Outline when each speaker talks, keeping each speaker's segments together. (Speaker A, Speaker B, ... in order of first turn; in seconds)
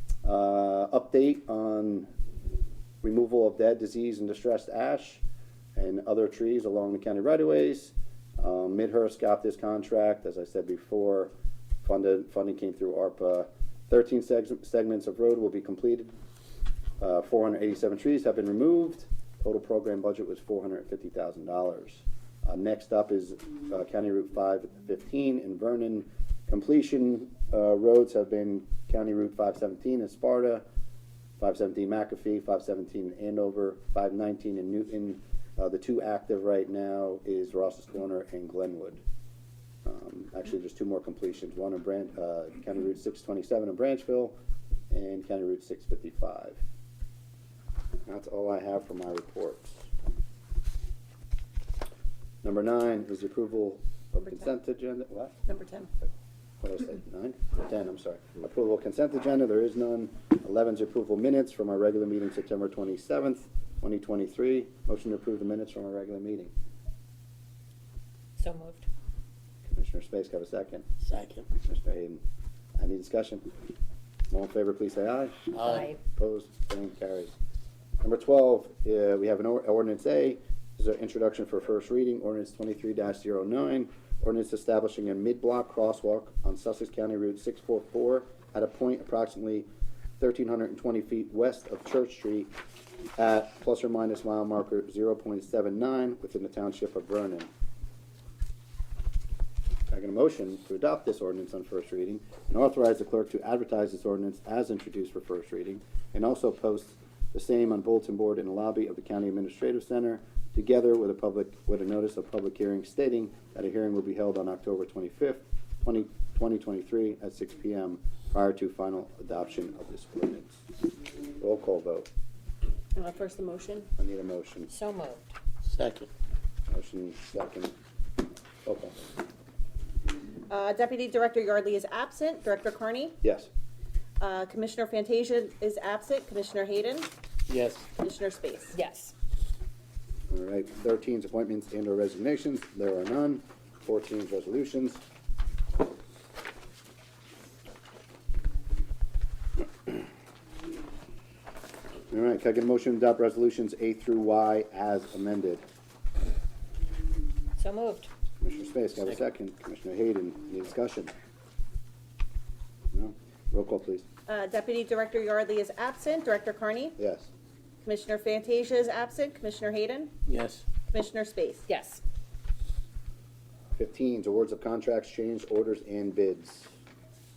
Speaker A: 0.2-2.1, 3.0-5.2, 5.8-11.3, 11.8-16.1, 17.0-30.6, 31.4-39.0, 39.9-44.4, 44.9-46.6, 48.1-49.9, 52.4-55.4, 56.6-66.5, 69.7-70.9, 71.5-72.2, 72.8-73.5, 74.3-77.3, 78.0-89.7, 90.2-92.5, 93.2-97.5, 99.9-120.6, 121.4-122.1, 124.0-124.7, 126.7-127.7, 128.7-128.9, 133.2-133.5, 140.3-145.0, 152.1-155.6, 158.4-161.1, 162.9-164.1, 167.0-167.3, 173.8-176.7
Speaker B: 55.5-55.9, 123.0-123.9, 130.5-133.2, 134.2-137.1, 138.0-138.8, 164.3-167.0, 167.8-170.2, 170.9-171.7
Speaker C: 68.4-68.9, 75.6-76.0, 124.7-125.3, 138.7-139.1, 157.6-158.1, 171.7-172.0
Speaker D: 71.0-71.5, 75.5-75.8, 125.6-126.1, 137.5-137.8, 170.3-170.6